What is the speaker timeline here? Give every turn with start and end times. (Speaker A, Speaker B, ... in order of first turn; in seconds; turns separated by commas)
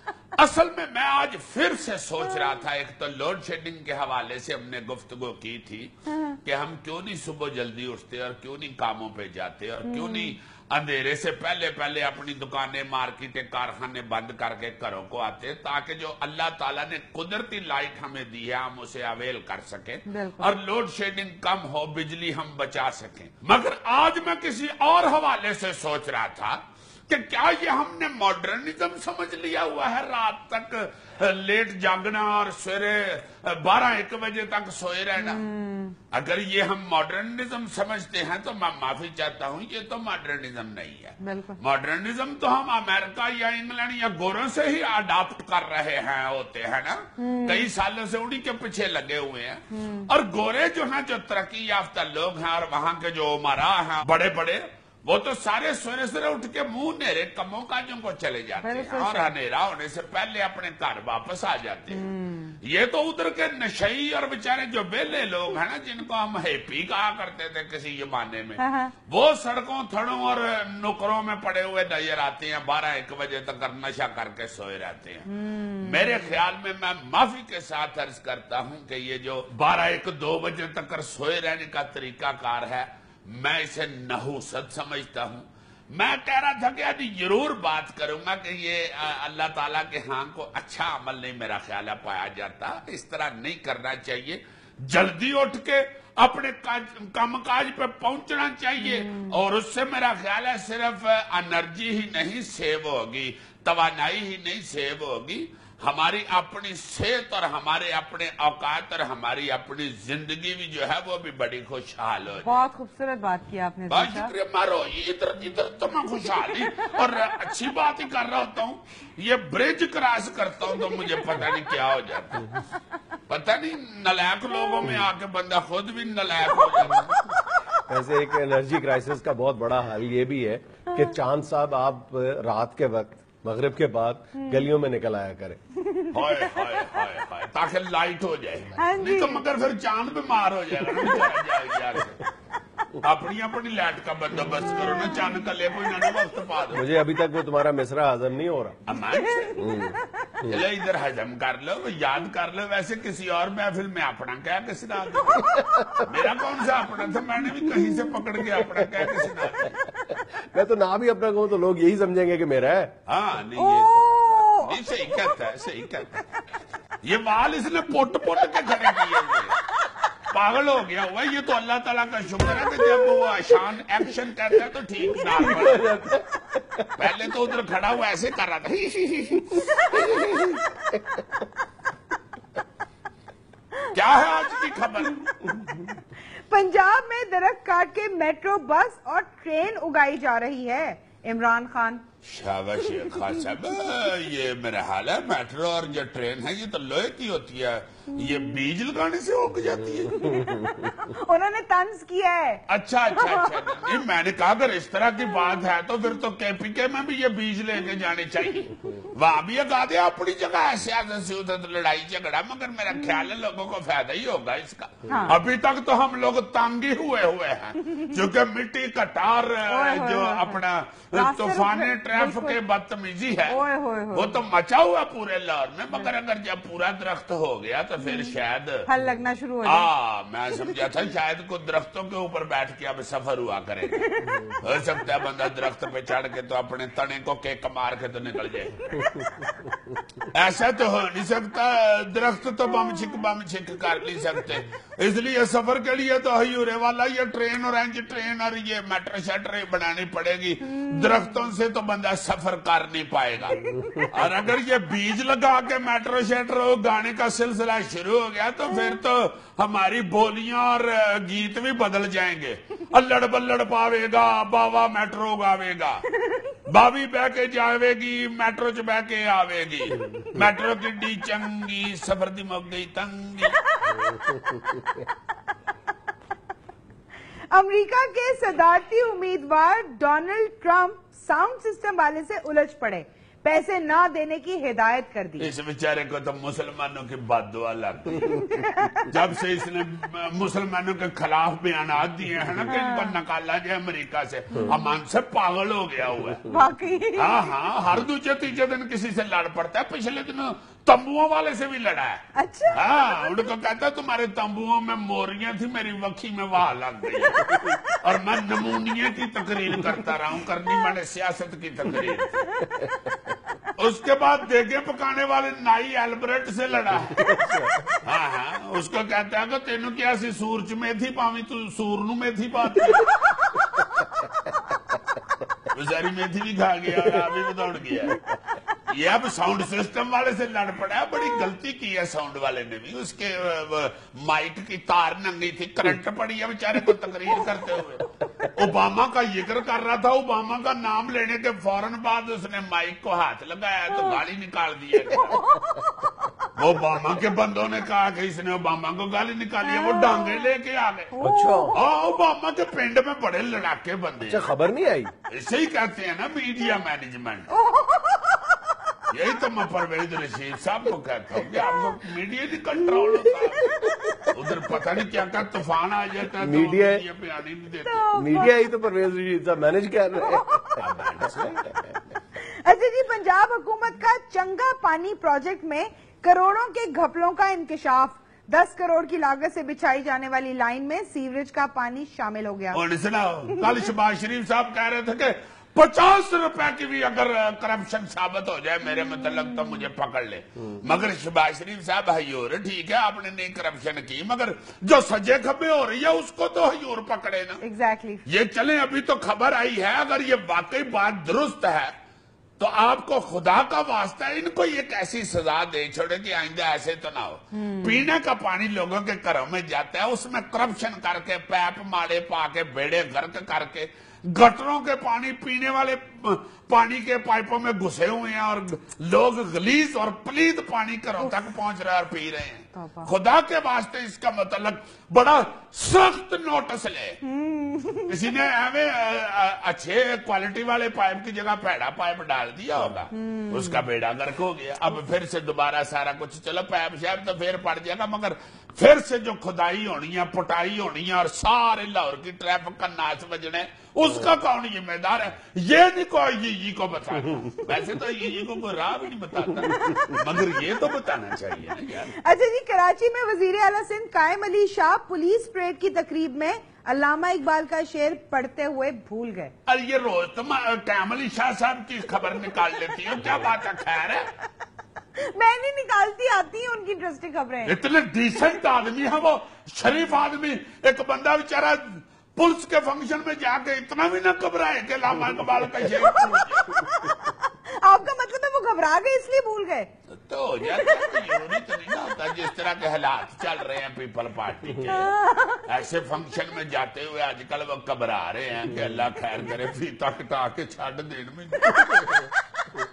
Speaker A: 0.4-5.9, Speaker A: 6.4-35.4, Speaker B: 9.8-10.3, Speaker B: 20.1-20.5, Speaker B: 35.2-36.0, Speaker A: 36.1-62.1, Speaker B: 41.2-41.6, Speaker B: 47.2-47.7, Speaker B: 49.7-50.1, Speaker B: 58.6-59.3, Speaker B: 61.9-62.6, Speaker A: 62.6-112.6, Speaker B: 68.6-68.9, Speaker B: 75.3-76.3, Speaker B: 98.9-99.3, Speaker B: 112.4-114.3, Speaker A: 113.9-122.6, Speaker A: 123.3-127.3, Speaker C: 127.9-135.6, Speaker B: 134.4-134.7, Speaker B: 135.8-136.4, Speaker A: 136.1-142.2, Speaker B: 138.8-139.4, Speaker A: 143.0-146.8, Speaker C: 146.7-148.8, Speaker A: 148.8-149.7, Speaker B: 149.1-149.9, Speaker C: 149.6-150.6, Speaker A: 150.4-159.8, Speaker B: 155.4-155.8, Speaker C: 155.6-156.1, Speaker C: 158.6-162.9, Speaker A: 163.1-166.2, Speaker B: 163.6-164.8, Speaker A: 167.0-169.6, Speaker A: 170.3-176.1, Speaker C: 175.3-177.1, Speaker A: 177.0-180.3, Speaker C: 179.7-181.2, Speaker A: 183.9-185.8, Speaker B: 186.5-192.0, Speaker A: 192.2-200.5, Speaker B: 200.2-202.6, Speaker A: 202.7-223.6, Speaker B: 203.2-203.8, Speaker B: 215.1-215.4, Speaker B: 219.7-220.6, Speaker B: 221.1-222.6, Speaker B: 223.5-224.4, Speaker A: 224.1-228.9, Speaker B: 228.0-228.3, Speaker B: 228.8-229.9, Speaker A: 229.7-239.0, Speaker B: 234.0-234.3, Speaker A: 240.2-273.6, Speaker B: 250.8-251.2, Speaker B: 253.6-254.0, Speaker C: 274.0-275.1, Speaker B: 277.5-285.5, Speaker A: 285.4-288.5, Speaker B: 288.3-289.1, Speaker A: 289.0-296.4, Speaker B: 292.7-293.2, Speaker B: 296.5-297.6, Speaker A: 297.1-312.6, Speaker B: 302.4-303.3, Speaker C: 312.8-313.1, Speaker A: 313.8-317.2, Speaker C: 317.1-317.9, Speaker A: 318.0-323.6, Speaker A: 325.7-328.3, Speaker A: 328.9-345.6, Speaker B: 345.2-346.3, Speaker A: 346.6-351.1, Speaker B: 349.6-350.5, Speaker B: 351.1-351.8, Speaker C: 351.2-351.8, Speaker A: 351.7-354.4, Speaker C: 354.2-355.1, Speaker A: 355.3-357.5, Speaker B: 357.5-358.8, Speaker A: 359.1-368.1, Speaker C: 366.4-367.0, Speaker B: 367.9-368.6, Speaker C: 368.1-370.6, Speaker B: 370.2-370.8, Speaker A: 370.8-371.8, Speaker C: 371.3-371.8, Speaker B: 372.4-382.8, Speaker A: 382.7-397.6, Speaker B: 397.6-398.2, Speaker A: 398.2-401.9, Speaker A: 402.6-427.2, Speaker B: 407.5-408.1, Speaker B: 422.7-423.1, Speaker B: 427.2-428.1, Speaker A: 428.1-452.1, Speaker B: 433.1-433.8, Speaker B: 449.7-450.1, Speaker B: 452.1-459.5, Speaker A: 459.7-464.3, Speaker B: 465.2-467.8, Speaker A: 467.6-476.9, Speaker B: 476.2-479.9, Speaker A: 480.2-485.1, Speaker B: 480.7-481.2, Speaker B: 484.9-485.6, Speaker A: 485.6-492.3